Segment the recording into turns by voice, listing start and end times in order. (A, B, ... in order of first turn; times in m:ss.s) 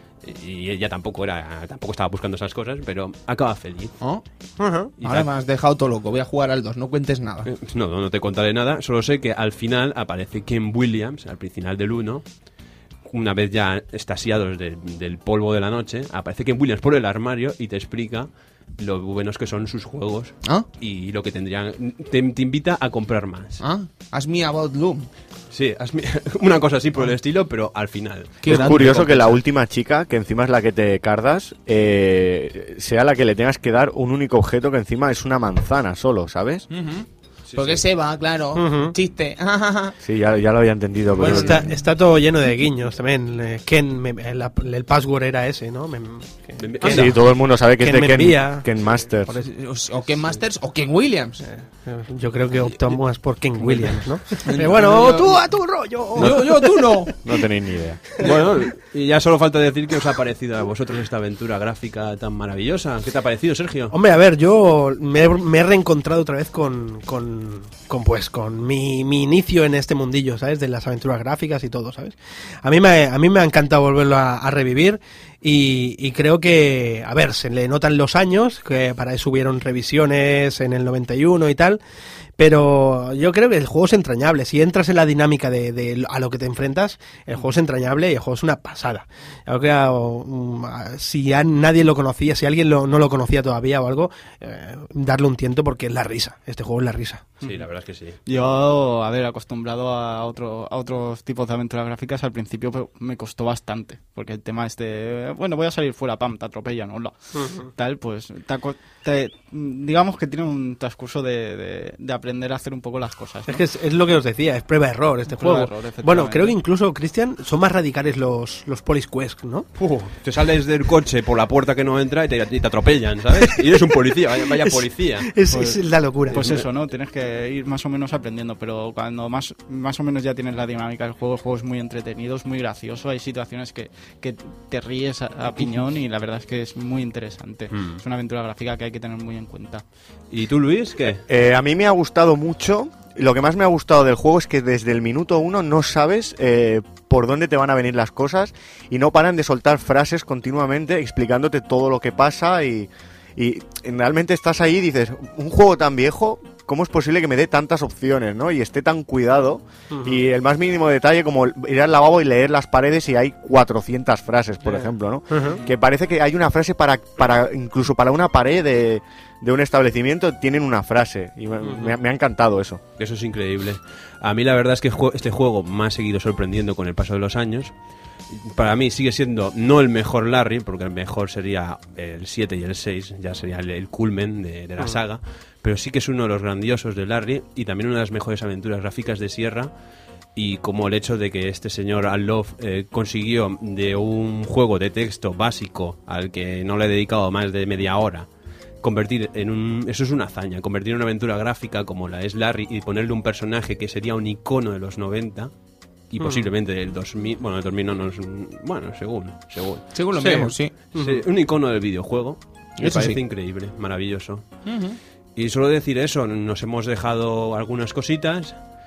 0:00.2-0:04.0 A
0:04.6-0:04.9 B
0:05.0-0:05.3 A
0:05.0-0:07.5 C
0:07.4-0:12.2 A
0:13.0-0:23.6 A
0:23.6-0:25.1 C
0:25.5-0:29.4 A
0:28.4-0:29.0 C
0:28.5-0:36.7 D
0:36.7-0:40.0 C
0:37.5-0:37.8 A
0:38.6-0:39.0 B
0:40.0-0:41.7 D
0:41.2-0:41.7 C
0:41.2-0:49.5 B
0:46.6-0:47.2 A
0:46.8-0:49.4 D
0:49.4-0:51.4 C
0:51.4-0:57.1 B
0:53.6-0:54.5 A
0:54.5-0:55.4 C
0:56.2-0:57.1 C
0:57.1-0:58.3 D
0:58.2-1:04.0 A
1:03.9-1:21.8 B
1:22.4-1:37.4 B
1:37.4-1:38.2 A
1:38.3-1:53.6 E
1:47.4-1:47.6 B
1:53.5-1:59.7 B
1:55.3-1:56.6 E
1:59.8-2:05.3 A
2:03.4-2:03.8 B
2:04.5-2:06.5 B
2:05.5-2:19.8 E
2:06.4-2:06.7 A
2:17.7-2:18.0 A
2:20.3-2:21.2 A
2:21.3-2:52.8 D
2:39.9-2:40.2 B
2:44.6-2:45.6 B
2:51.6-2:52.0 B
2:53.0-2:57.7 A
2:58.3-3:09.7 A
3:10.4-3:18.3 A
3:18.8-3:25.5 A
3:26.1-3:29.9 A
3:26.2-3:26.5 B
3:29.9-3:30.7 C
3:30.2-3:31.3 B
3:31.0-3:34.4 A
3:32.8-3:33.2 C
3:34.7-3:35.0 C
3:35.4-3:38.6 A